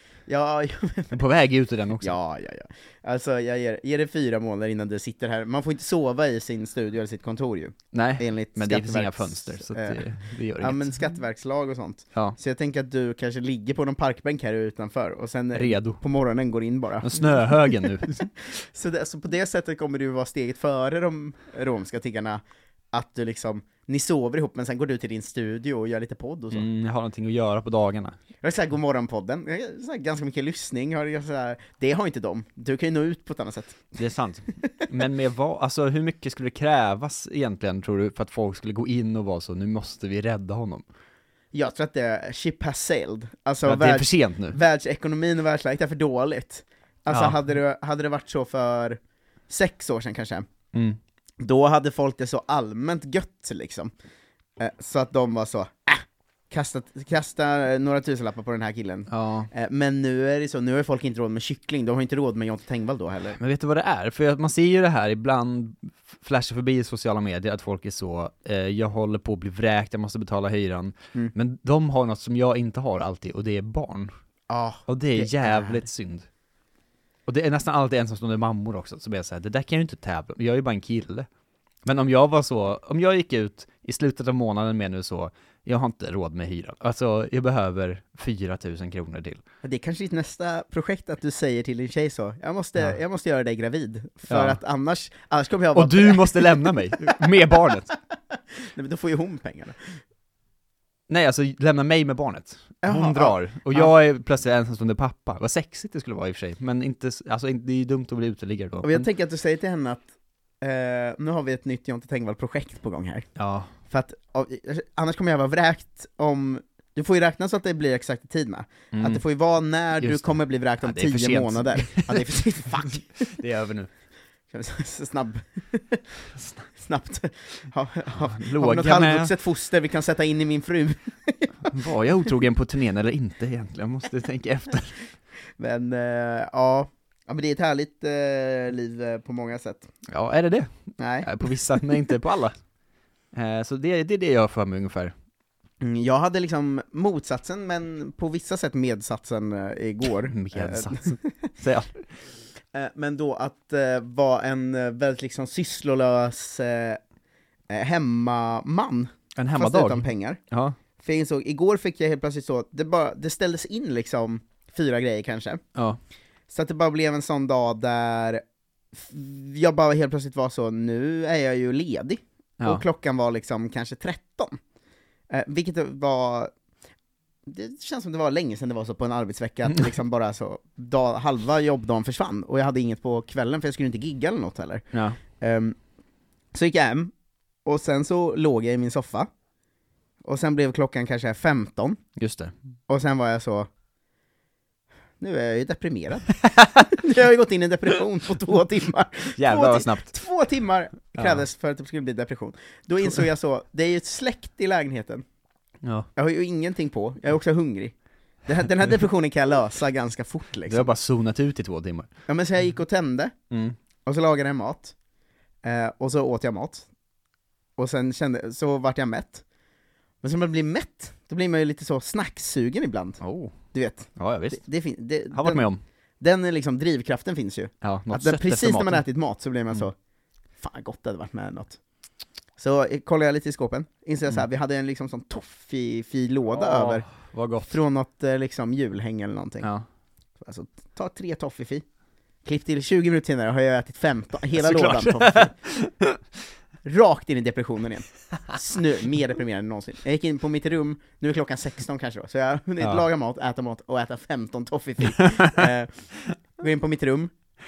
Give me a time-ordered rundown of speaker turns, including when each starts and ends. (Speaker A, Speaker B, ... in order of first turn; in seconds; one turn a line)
Speaker A: 0.3-1.2
Speaker B: 1.1-2.1
Speaker A: 2.0-10.1
Speaker B: 7.9-10.9
Speaker A: 10.6-26.7
Speaker B: 15.5-16.0
Speaker B: 17.0-18.3
Speaker B: 26.5-28.2
Speaker A: 28.4-34.0
Speaker B: 34.0-40.9
Speaker A: 41.5-49.0
Speaker B: 43.6-44.6
Speaker B: 47.1-47.4
Speaker A: 49.5-50.5
Speaker B: 50.7-51.0
Speaker A: 51.4-53.9
Speaker A: 54.6-63.4
Speaker B: 59.1-59.5
Speaker B: 63.3-74.1
Speaker A: 74.5-75.8
Speaker B: 74.9-76.3
Speaker B: 77.3-81.3
Speaker B: 81.9-89.4
Speaker A: 89.6-99.8
Speaker B: 94.3-94.6
Speaker B: 95.8-97.9
Speaker B: 101.1-109.1
Speaker A: 102.8-103.9
Speaker A: 108.8-110.1
Speaker A: 110.6-113.3
Speaker B: 113.4-113.7
Speaker A: 113.9-123.3
Speaker B: 118.9-119.2
Speaker B: 120.0-123.9
Speaker A: 124.5-126.1
Speaker B: 126.4-126.6
Speaker A: 126.7-131.7
Speaker B: 128.2-129.3
Speaker B: 131.7-135.0
Speaker A: 135.6-139.9
Speaker B: 140.1-140.7
Speaker A: 141.0-142.1
Speaker B: 141.2-142.6
Speaker B: 143.3-145.1
Speaker A: 145.8-151.5
Speaker B: 150.3-152.0
Speaker A: 152.7-157.0
Speaker A: 157.7-160.4
Speaker B: 159.4-160.8
Speaker A: 161.0-165.6
Speaker A: 166.5-168.4
Speaker A: 168.9-174.6
Speaker A: 175.3-176.5
Speaker A: 177.5-185.8
Speaker B: 184.9-185.2
Speaker A: 186.5-187.1
Speaker A: 187.7-189.3
Speaker A: 190.2-192.0
Speaker B: 192.2-192.5
Speaker A: 192.9-193.7
Speaker A: 195.2-205.2
Speaker B: 199.4-200.1
Speaker B: 201.2-201.4
Speaker B: 205.8-206.1
Speaker A: 206.2-210.9
Speaker B: 210.7-212.1
Speaker A: 212.3-213.3
Speaker B: 213.5-213.8
Speaker A: 214.1-214.9
Speaker A: 215.6-216.9
Speaker A: 217.8-219.4
Speaker A: 220.2-223.2
Speaker B: 223.2-223.6
Speaker A: 223.7-225.7
Speaker B: 224.2-224.6
Speaker B: 225.3-225.8
Speaker A: 226.2-229.9
Speaker B: 227.8-229.1
Speaker A: 230.6-231.8
Speaker A: 232.6-237.1
Speaker B: 236.5-237.8
Speaker A: 237.7-239.7
Speaker A: 240.4-241.8
Speaker A: 242.4-245.5
Speaker B: 244.6-246.2
Speaker A: 246.8-257.3
Speaker B: 255.2-255.6